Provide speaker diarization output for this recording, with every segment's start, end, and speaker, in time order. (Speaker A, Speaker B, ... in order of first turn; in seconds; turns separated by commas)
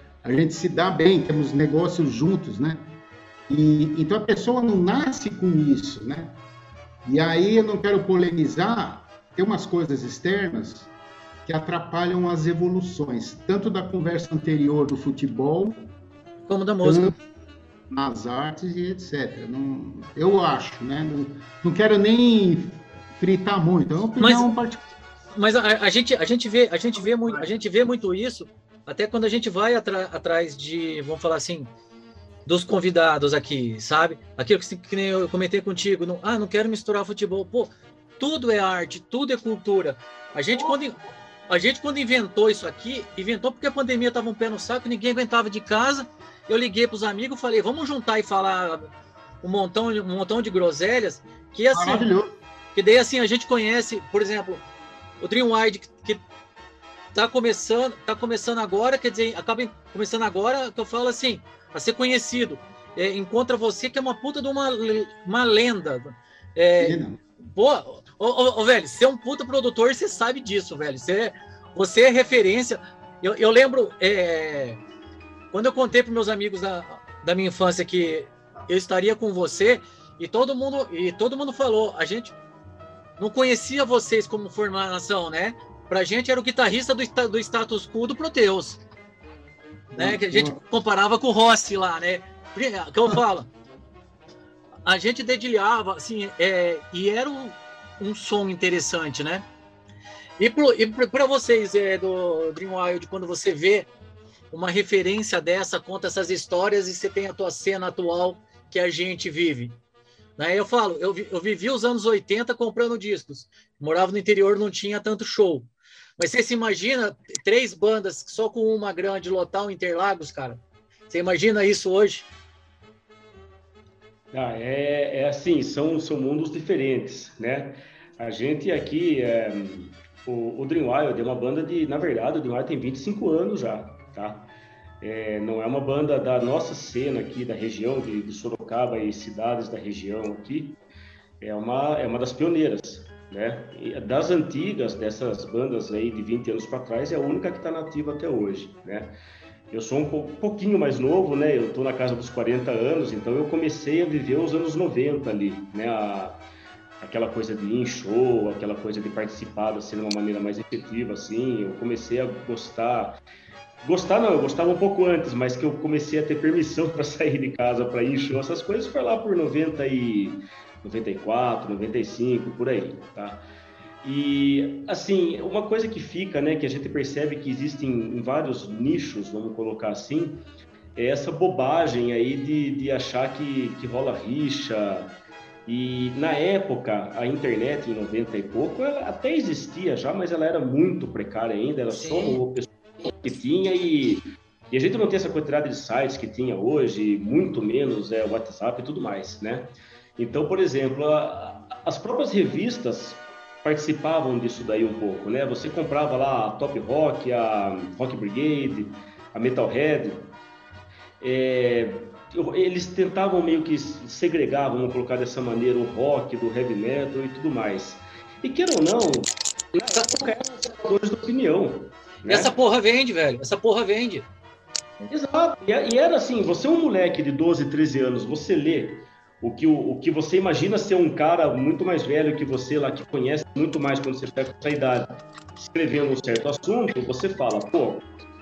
Speaker A: 0.2-2.9, Speaker A: 3.5-6.4, Speaker A: 7.0-10.9, Speaker A: 11.5-15.9, Speaker B: 16.5-17.1, Speaker A: 16.8-17.1, Speaker A: 17.9-24.9, Speaker B: 24.2-24.5, Speaker B: 25.3-31.7, Speaker B: 32.5-41.0, Speaker B: 41.5-48.9, Speaker B: 49.4-52.1, Speaker A: 51.7-52.4, Speaker B: 52.8-54.6, Speaker B: 55.2-56.2, Speaker B: 57.1-74.8, Speaker A: 66.8-67.2, Speaker B: 75.5-82.4, Speaker B: 83.2-88.8, Speaker A: 89.9-90.6, Speaker B: 90.0-93.5, Speaker B: 94.9-99.5, Speaker B: 100.4-103.9, Speaker B: 104.5-109.8, Speaker B: 110.4-122.3, Speaker C: 124.3-134.5, Speaker C: 135.0-140.8, Speaker C: 141.4-149.1, Speaker C: 149.7-156.4, Speaker C: 157.0-163.2, Speaker C: 163.8-173.4, Speaker C: 174.0-180.4, Speaker C: 181.0-185.1, Speaker C: 185.7-210.3, Speaker B: 191.9-192.4, Speaker C: 211.2-222.5, Speaker B: 222.3-224.3, Speaker C: 225.1-238.0